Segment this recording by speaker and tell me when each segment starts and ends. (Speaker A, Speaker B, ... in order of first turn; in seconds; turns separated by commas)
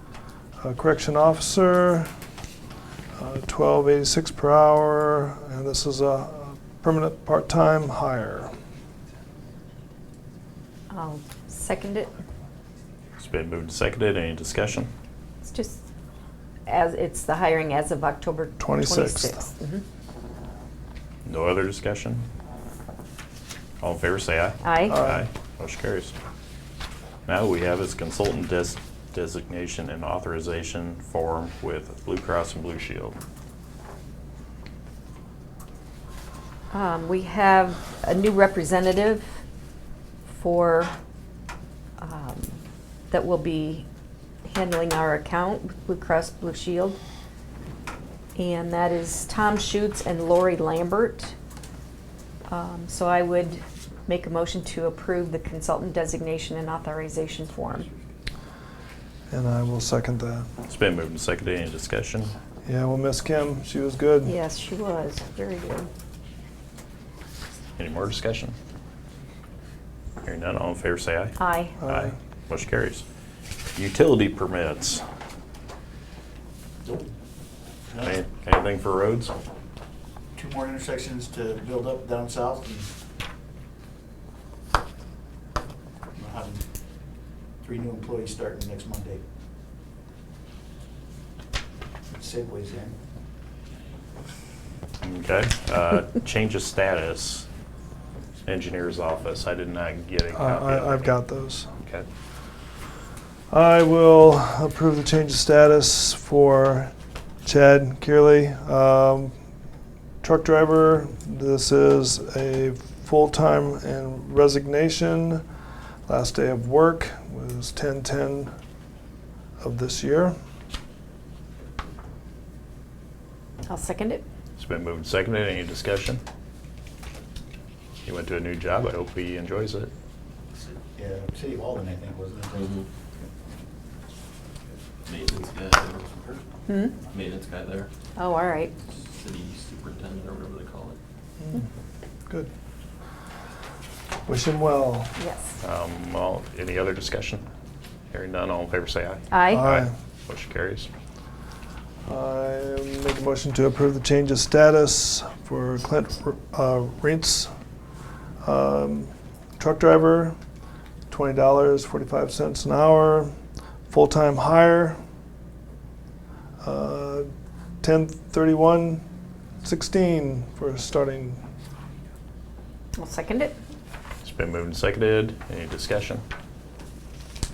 Speaker A: 0.6-2.1, Speaker A: 3.2-8.5, Speaker B: 10.9-12.1, Speaker C: 13.2-14.9, Speaker B: 15.4-15.8, Speaker B: 16.7-19.8, Speaker A: 18.6-19.5, Speaker C: 21.3-22.3, Speaker C: 23.8-26.2, Speaker B: 24.6-25.0, Speaker A: 24.9-25.3, Speaker C: 27.3-33.2, Speaker B: 36.7-39.3, Speaker B: 40.3-40.9, Speaker B: 42.0-43.9, Speaker B: 44.4-47.0, Speaker B: 48.4-51.3, Speaker B: 52.5-57.9, Speaker A: 59.3-60.5, Speaker C: 60.7-62.3, Speaker A: 62.6-64.4, Speaker B: 64.2-65.9, Speaker C: 67.8-68.5, Speaker C: 70.2-73.0, Speaker B: 71.4-71.8, Speaker A: 71.8-72.2, Speaker C: 73.8-75.0, Speaker D: 76.8-77.1, Speaker D: 77.9-78.2, Speaker C: 78.0-79.3, Speaker D: 80.4-82.9, Speaker D: 86.2-86.6, Speaker D: 87.6-89.2, Speaker D: 92.1-93.0, Speaker C: 95.0-97.5, Speaker C: 98.5-101.1, Speaker A: 100.3-101.7, Speaker A: 103.5-106.9, Speaker A: 107.5-109.3, Speaker A: 110.2-115.4, Speaker A: 116.1-118.5, Speaker A: 119.6-120.3, Speaker B: 123.7-124.2, Speaker C: 124.6-126.2, Speaker C: 128.1-129.9, Speaker D: 130.6-132.8, Speaker E: 132.6-132.8, Speaker E: 135.1-136.4, Speaker B: 136.7-136.9, Speaker E: 137.1-137.9, Speaker B: 138.2-138.7, Speaker E: 138.9-141.0, Speaker A: 141.4-141.7, Speaker A: 144.3-145.2, Speaker B: 145.2-145.6, Speaker C: 145.6-147.4, Speaker C: 148.1-150.9, Speaker B: 149.3-149.7, Speaker A: 149.5-149.9, Speaker A: 152.1-157.5, Speaker A: 158.4-160.4, Speaker A: 161.1-163.3, Speaker A: 163.9-165.0, Speaker A: 166.6-167.3, Speaker A: 167.8-169.0, Speaker A: 169.6-171.4, Speaker B: 173.0-173.6, Speaker C: 174.2-176.2